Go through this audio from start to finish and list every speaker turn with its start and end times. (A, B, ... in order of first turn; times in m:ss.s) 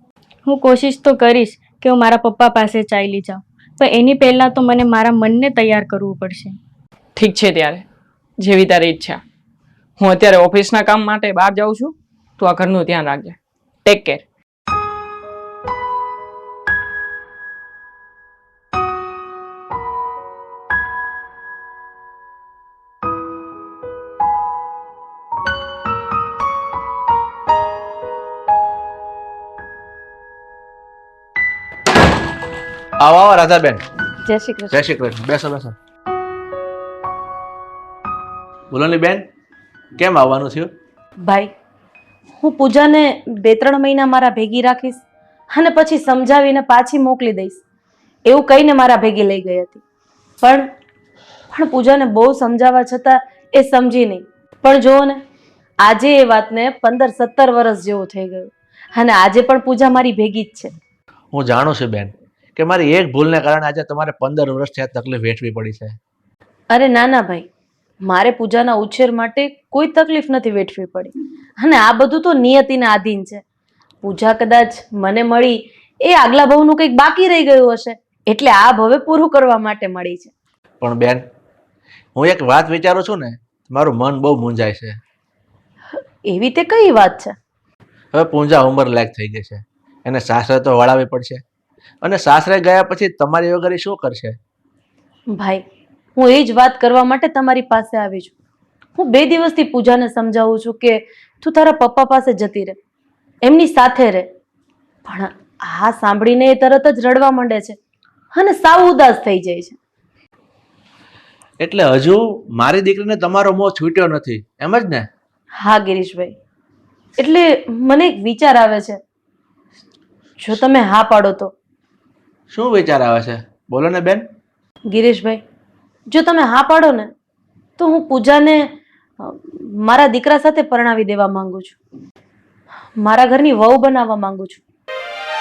0:00.5-0:06.6 A
0:07.2-0:07.8 B
0:08.4-0:09.2 B
0:10.0-0:14.2 B
0:33.0-0:33.8 C
0:34.3-0:34.8 D
0:34.7-0:35.8 C
0:38.7-0:39.2 C
0:40.0-0:40.7 C
0:41.2-0:41.5 D
0:42.4-0:45.0 D
0:45.5-0:47.6 D
0:48.3-0:49.8 D
0:50.4-0:50.7 D
0:51.5-0:55.2 D
0:55.8-1:00.7 D
1:01.3-1:06.0 C
1:06.7-1:07.5 D
1:08.0-1:13.4 D
1:14.0-1:20.3 D
1:20.8-1:21.2 C
1:22.2-1:25.0 C
1:26.3-1:27.4 D
1:28.1-1:31.4 C
1:32.0-1:34.4 C
1:35.4-1:35.6 D
1:36.2-1:38.3 D
1:39.0-1:42.8 D
1:43.4-1:44.3 D
1:45.1-1:47.8 D
1:48.3-1:49.8 D
1:51.6-1:55.1 C
1:55.6-1:56.3 D
1:57.2-1:59.0 D
2:00.4-2:01.5 D
2:02.5-2:04.2 C
2:04.9-2:05.4 D
2:06.1-2:07.1 D
2:07.8-2:11.8 D
2:13.0-2:14.6 D